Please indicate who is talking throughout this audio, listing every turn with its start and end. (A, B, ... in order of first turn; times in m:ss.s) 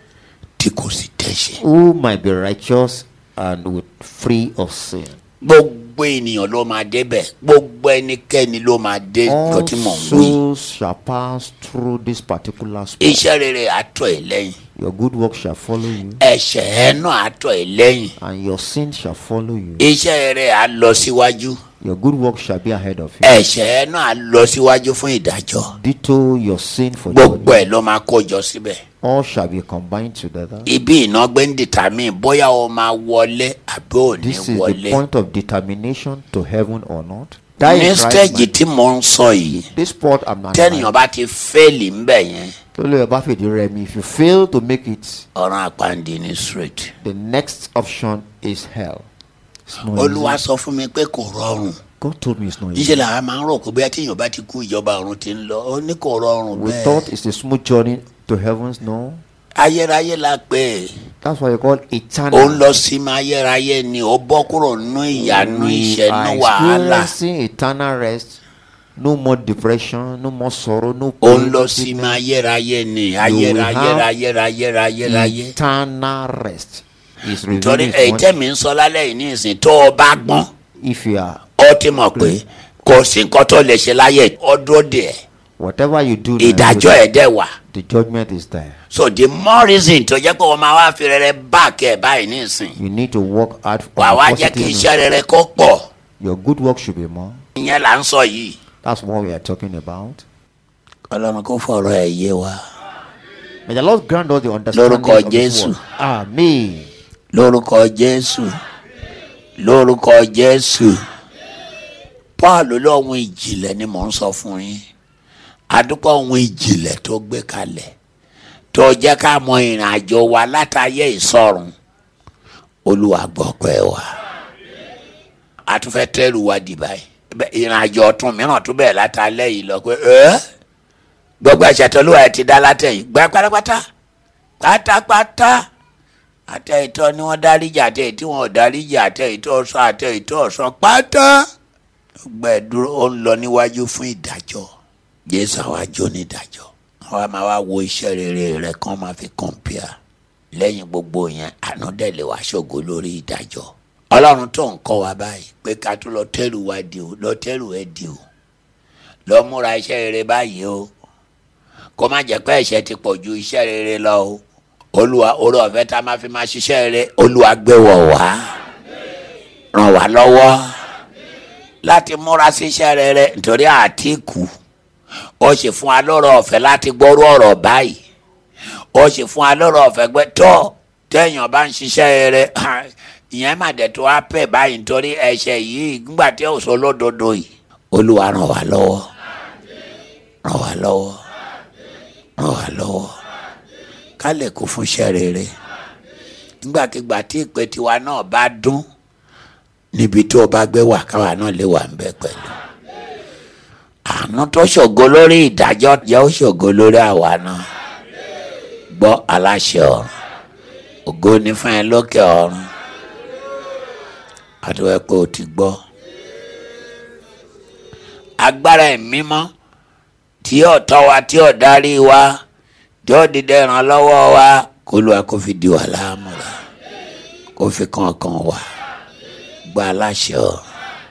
0:00.6-0:01.6 A
0:01.6-0:05.2 B
0:05.4-0:10.4 A
0:09.2-0:13.2 B
0:13.0-0:14.6 A
0:14.8-0:16.2 B
0:16.2-0:18.2 A
0:18.2-0:19.9 B
0:19.8-0:21.6 A
0:21.8-0:23.4 B
0:23.2-0:25.7 A
0:25.6-0:27.7 B
0:27.1-0:28.8 A
0:29.0-0:30.7 B
0:30.6-0:35.0 A
0:34.2-0:38.5 B
0:37.6-0:39.7 A
0:39.7-0:41.0 B
0:40.5-0:42.6 A
0:42.7-0:45.3 B
0:45.3-0:46.9 A
0:47.0-0:49.1 B
0:49.6-0:50.4 B
0:49.9-0:51.8 A
0:52.0-0:53.0 B
0:52.7-0:57.1 A
0:56.5-0:59.2 B
0:59.5-1:01.0 A
1:01.2-1:02.7 B
1:02.3-1:07.1 A
1:05.1-1:08.4 B
1:09.0-1:12.2 B
1:11.2-1:15.5 A
1:13.2-1:14.1 B
1:15.0-1:18.4 B
1:17.5-1:20.5 A
1:20.8-1:21.4 B
1:21.6-1:25.2 A
1:22.1-1:22.4 B
1:25.6-1:27.1 B
1:26.4-1:27.5 A
1:27.7-1:28.8 B
1:28.9-1:32.7 A
1:32.8-1:34.9 B
1:34.0-1:35.9 A
1:36.2-1:37.4 B
1:37.5-1:38.6 A
1:38.8-1:40.2 B
1:41.1-1:42.6 A
1:43.6-1:46.9 B
1:44.7-1:45.8 A
1:47.3-1:48.6 A
1:49.6-1:51.0 A
1:52.4-1:54.8 A
1:55.7-1:57.9 A
1:58.7-2:01.7 A
2:02.8-2:04.0 A
2:05.7-2:10.4 A
2:11.4-2:13.8 A
2:14.6-2:15.6 A
2:16.5-2:21.4 A
2:22.2-2:24.7 A
2:25.3-2:29.9 A
2:30.5-2:38.2 A
2:39.3-2:40.9 A
2:42.0-2:44.4 A
2:44.9-2:48.5 A
2:49.7-2:50.7 A
2:51.8-2:54.5 A
2:55.4-2:58.0 A
2:58.9-3:09.1 A
3:10.4-3:11.2 A
3:12.4-3:13.1 A
3:14.2-3:15.5 A
3:16.6-3:18.8 A
3:19.9-3:22.6 A
3:24.0-3:27.7 A
3:28.9-3:30.1 A
3:31.0-3:32.7 A
3:34.6-3:35.8 A
3:38.4-3:39.5 A
3:40.4-3:42.4 A
3:43.0-3:46.6 A
3:47.6-3:48.6 A
3:49.6-3:50.6 A